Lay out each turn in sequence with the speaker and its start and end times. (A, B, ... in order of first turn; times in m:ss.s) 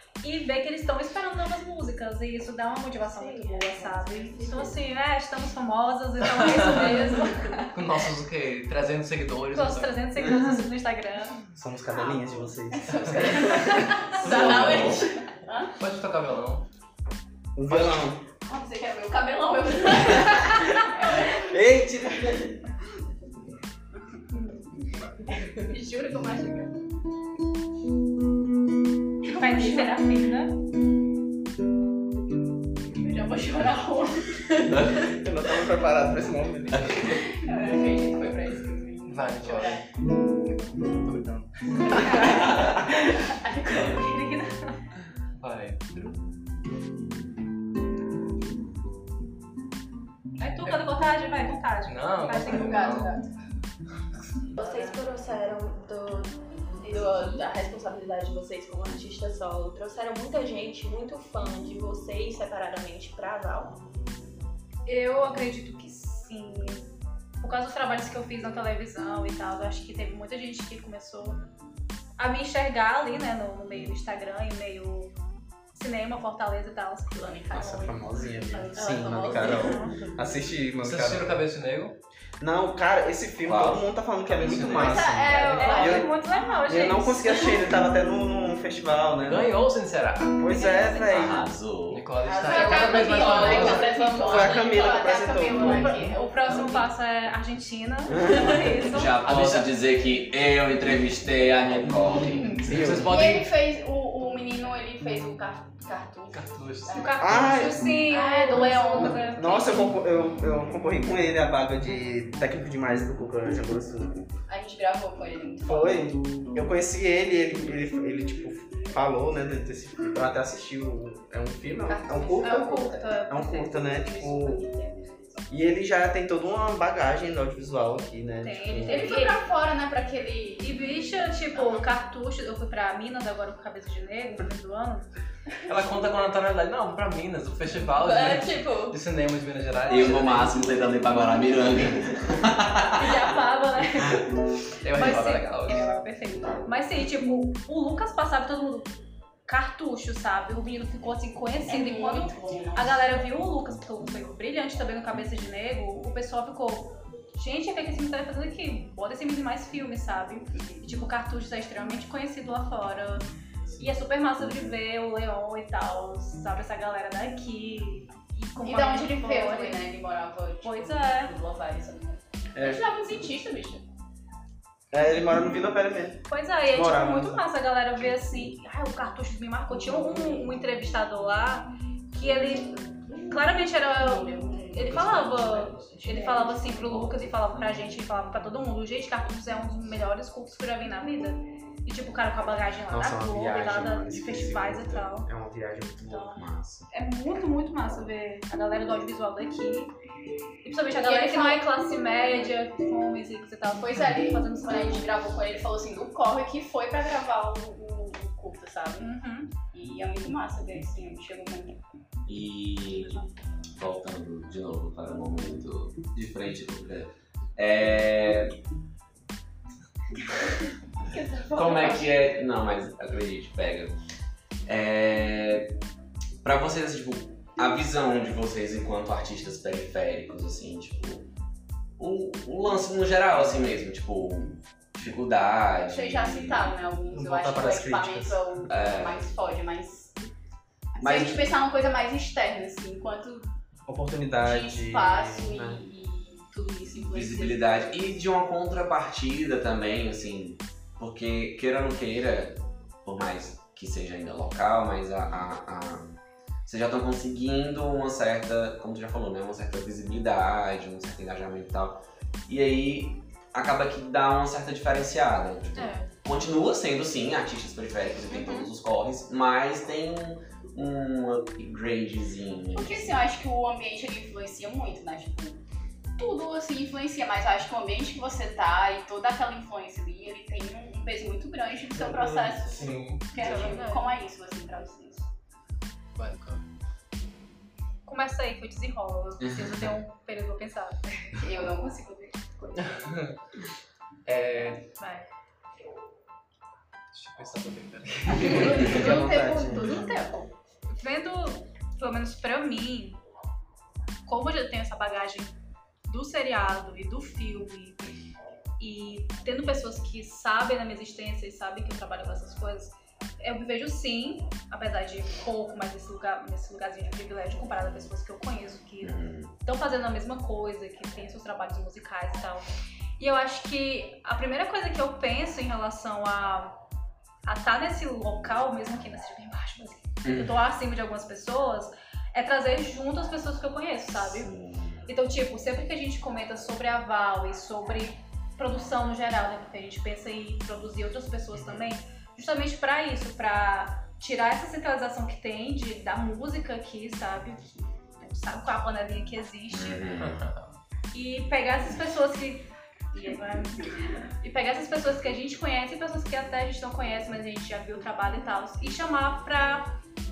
0:00.2-0:07.8 A
0:03.1-0:04.7 B
0:06.2-0:10.1 C
0:09.5-0:11.4 A
0:11.5-0:13.6 D
0:11.9-0:15.7 E
0:12.9-0:13.9 C
0:13.4-0:14.0 A
0:14.1-0:15.1 B
0:14.2-0:15.0 F
0:14.4-0:15.0 D
0:15.8-0:16.6 C
0:17.6-0:18.2 D
0:18.4-0:21.6 E
0:21.2-0:22.4 D
0:25.4-0:26.8 E
0:29.2-0:30.1 E
0:29.3-0:30.5 A
0:32.9-0:34.4 E
0:34.9-0:37.2 D
0:36.7-0:37.2 F
0:37.1-0:39.8 E
0:39.1-0:39.8 C
0:40.8-0:42.8 C
0:41.9-0:42.7 A
0:43.2-0:44.2 E
0:43.7-0:44.8 A
0:45.4-0:46.1 C
0:50.4-0:53.1 A
0:50.6-0:50.9 C
0:51.9-0:53.1 C
0:52.4-0:53.2 E
0:54.6-1:03.8 B
0:56.9-0:57.4 E
1:04.9-1:11.4 A
1:12.2-1:15.1 A
1:15.7-1:17.3 A
1:17.1-1:19.9 E
1:17.5-1:21.4 D
1:18.8-1:20.1 B
1:20.8-1:22.0 C
1:22.4-1:26.1 D
1:23.4-1:23.8 F
1:24.3-1:25.6 C
1:24.4-1:26.2 E
1:25.6-1:27.6 A
1:26.7-1:29.6 D
1:29.2-1:30.4 C
1:30.4-1:31.4 D
1:30.5-1:31.3 A
1:31.1-1:32.1 F
1:31.9-1:33.9 C
1:32.2-1:36.9 E
1:32.4-1:35.4 B
1:32.5-1:33.8 A
1:34.2-1:36.0 D
1:35.4-1:39.2 A
1:38.1-1:38.5 D
1:38.6-1:42.7 F
1:39.2-1:39.7 C
1:42.6-1:43.2 D
1:42.6-1:43.5 C
1:43.0-1:49.4 E
1:46.3-1:47.1 C
1:46.9-1:50.0 A
1:47.2-1:48.0 D
1:49.0-1:54.2 D
1:54.5-1:56.2 E
1:55.6-2:04.6 D
2:01.9-2:05.4 E
2:02.4-2:03.7 A
2:05.5-2:09.1 D
2:08.4-2:09.4 A
2:08.8-2:10.8 E
2:10.6-2:15.1 A
2:11.5-2:11.9 E
2:15.7-2:20.7 C
2:18.0-2:19.0 B
2:19.9-2:23.2 F
2:23.0-2:24.4 A
2:24.8-2:25.9 C
2:24.9-2:29.0 A
2:29.5-2:43.2 A
2:31.7-2:33.0 E
2:43.8-2:49.8 A
2:48.6-2:53.8 E
2:50.6-2:51.3 A
2:52.6-2:52.8 D
2:54.9-2:57.4 D
2:56.3-3:15.3 A
3:03.9-3:06.6 E
3:06.8-3:07.1 F
3:12.9-3:16.2 D
3:16.0-3:16.9 F
3:16.0-3:19.9 A
3:20.6-3:25.1 A
3:21.0-3:21.6 E
3:23.8-3:31.8 E
3:29.0-3:29.5 A
3:32.3-3:33.2 F
3:32.9-3:33.3 A
3:33.8-3:38.6 F
3:41.0-3:42.3 E
3:41.5-3:43.9 F
3:44.7-3:45.7 F
3:46.4-3:51.3 F
3:52.0-3:56.8 F
3:55.9-4:00.2 E
3:57.1-3:58.4 D
3:58.7-3:59.2 F
4:01.0-4:03.5 E
4:01.0-4:01.5 F
4:03.9-4:05.8 D
4:04.4-4:08.0 E
4:07.1-4:16.1 F
4:16.7-4:33.2 F
4:25.8-4:26.1 A
4:32.8-4:35.6 E
4:36.2-4:45.3 E
4:41.9-4:43.8 C
4:42.8-4:43.0 D
4:43.3-4:44.1 A
4:46.2-4:46.6 C
4:48.1-4:51.3 A
4:49.4-4:50.0 F
4:51.3-4:53.1 E
4:52.8-4:53.4 C
4:54.2-4:54.8 C
4:55.0-4:55.3 A
4:57.1-4:59.1 C
4:58.4-5:00.5 E
4:58.4-5:00.0 D
4:58.5-4:59.2 A
4:59.0-4:59.8 F
5:00.9-5:03.2 A
5:04.3-5:05.6 A
5:06.1-5:08.0 A
5:08.8-5:26.8 A
5:19.0-5:19.5 F
5:27.5-5:34.5 A
5:30.2-5:30.6 F
5:34.2-5:35.0 F
5:35.1-5:50.0 A
5:41.5-5:41.9 C
5:49.7-5:50.4 F
5:50.2-5:50.7 C
5:51.1-6:00.0 A